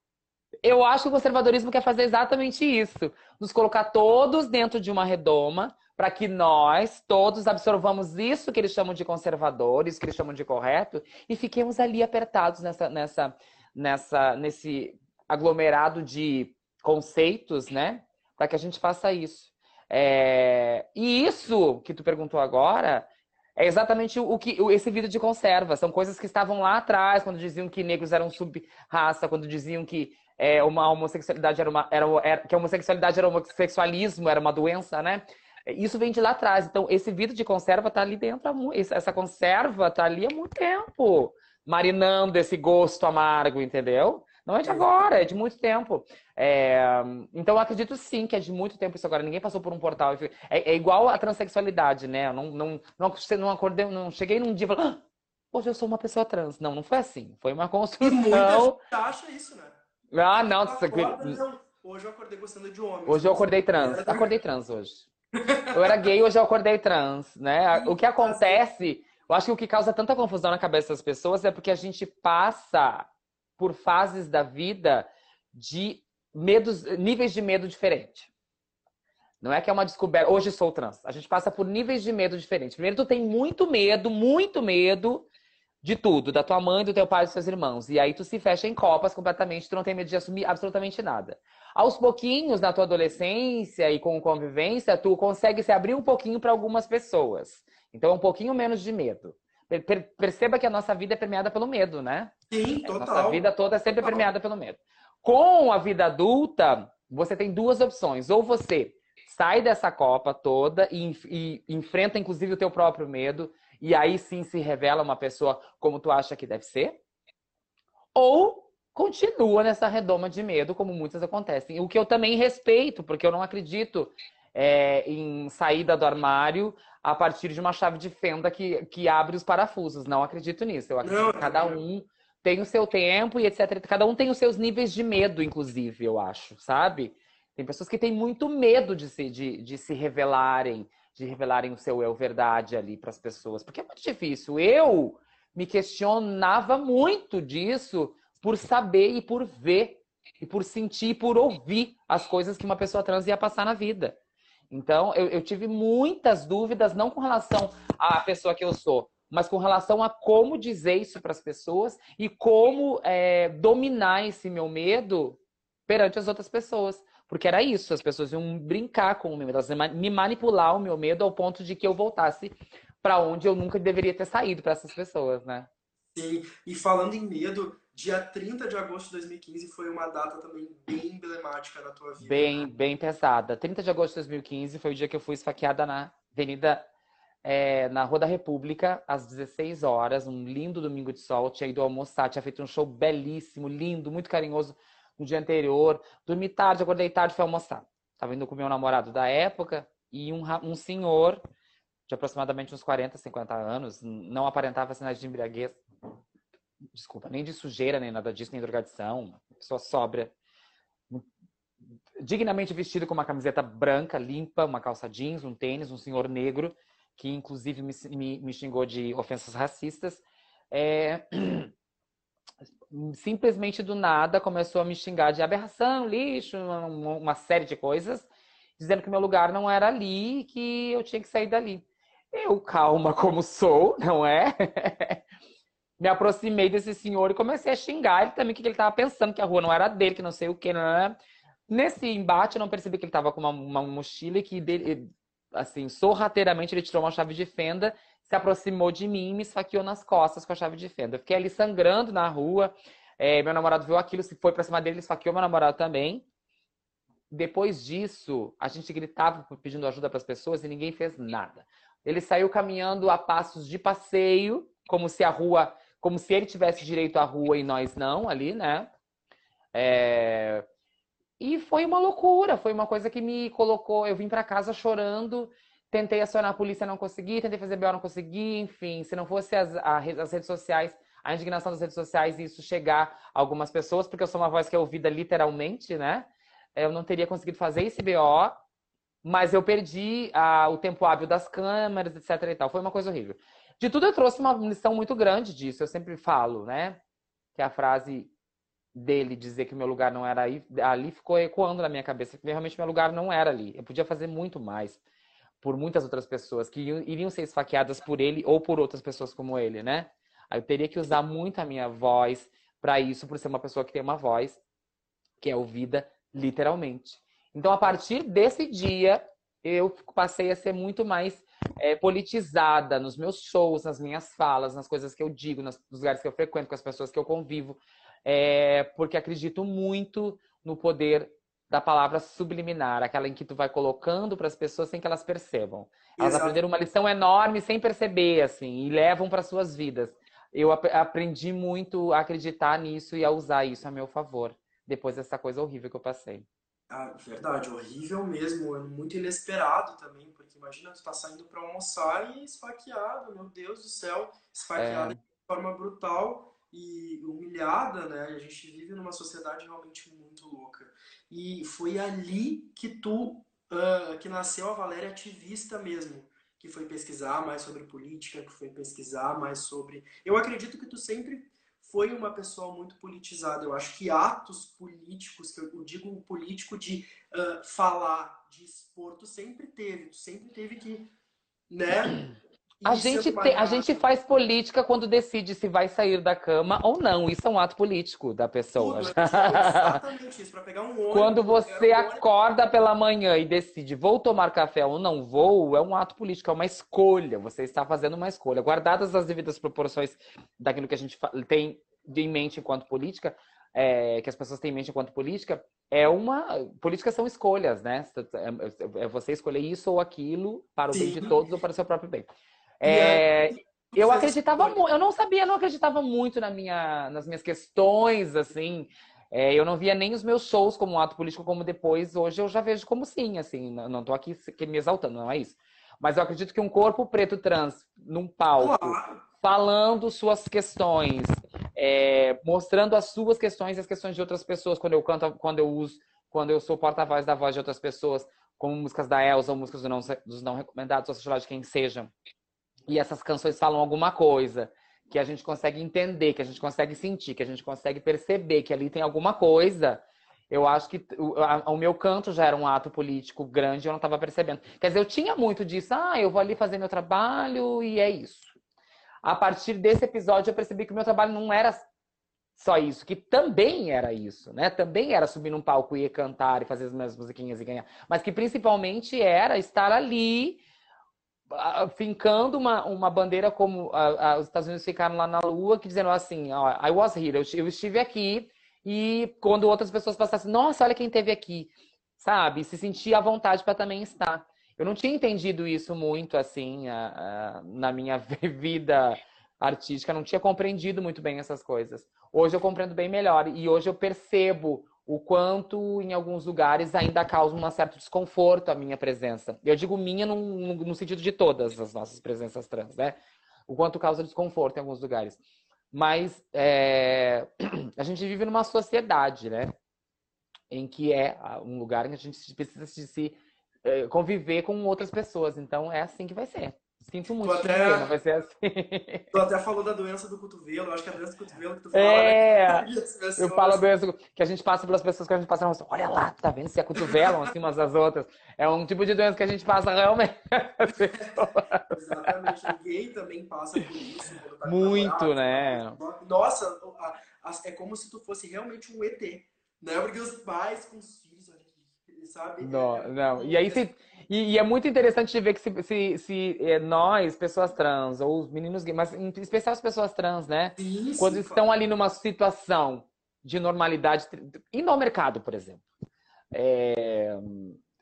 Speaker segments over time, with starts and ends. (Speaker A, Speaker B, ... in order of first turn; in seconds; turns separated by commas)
Speaker A: 0.6-58.8, Speaker B: 44.6-45.1, Speaker B: 58.0-59.8, Speaker A: 60.1-61.4, Speaker B: 60.6-64.3, Speaker A: 63.1-65.1, Speaker B: 65.4-66.0, Speaker A: 65.7-73.1, Speaker B: 67.7-68.6, Speaker A: 73.6-78.3, Speaker A: 79.4-85.3, Speaker A: 85.8-102.3, Speaker B: 102.5-103.5, Speaker A: 102.9-117.0, Speaker B: 104.0-104.3, Speaker A: 118.2-154.2, Speaker B: 131.0-131.8, Speaker A: 154.7-175.7, Speaker B: 176.2-182.7, Speaker A: 182.2-186.9, Speaker A: 187.4-201.4, Speaker A: 202.1-205.8, Speaker A: 206.9-210.3, Speaker A: 212.2-221.7, Speaker A: 222.9-235.2, Speaker A: 236.0-241.2, Speaker A: 241.7-256.3, Speaker A: 257.3-268.9, Speaker A: 269.7-270.6, Speaker A: 271.4-288.6, Speaker A: 289.2-297.0, Speaker A: 297.6-298.3, Speaker A: 298.9-305.0, Speaker A: 305.6-314.6, Speaker A: 315.4-346.5, Speaker B: 336.2-336.6, Speaker B: 346.9-381.1, Speaker A: 354.8-355.2, Speaker B: 381.7-382.2, Speaker B: 382.8-384.1, Speaker A: 382.8-390.0, Speaker B: 388.8-392.2, Speaker A: 391.1-412.3, Speaker B: 410.9-411.4, Speaker A: 412.8-442.1, Speaker B: 412.8-414.8, Speaker B: 428.6-429.2, Speaker A: 442.9-458.5, Speaker A: 459.2-461.8, Speaker A: 462.6-470.6, Speaker A: 471.5-503.2, Speaker A: 503.7-505.4, Speaker A: 505.9-509.7, Speaker A: 510.7-519.3, Speaker B: 517.4-518.1, Speaker B: 519.3-523.9, Speaker A: 521.9-532.5, Speaker B: 527.0-527.5, Speaker B: 531.0-543.9, Speaker A: 534.6-536.0, Speaker A: 542.6-555.8, Speaker B: 550.8-551.8, Speaker A: 556.5-557.8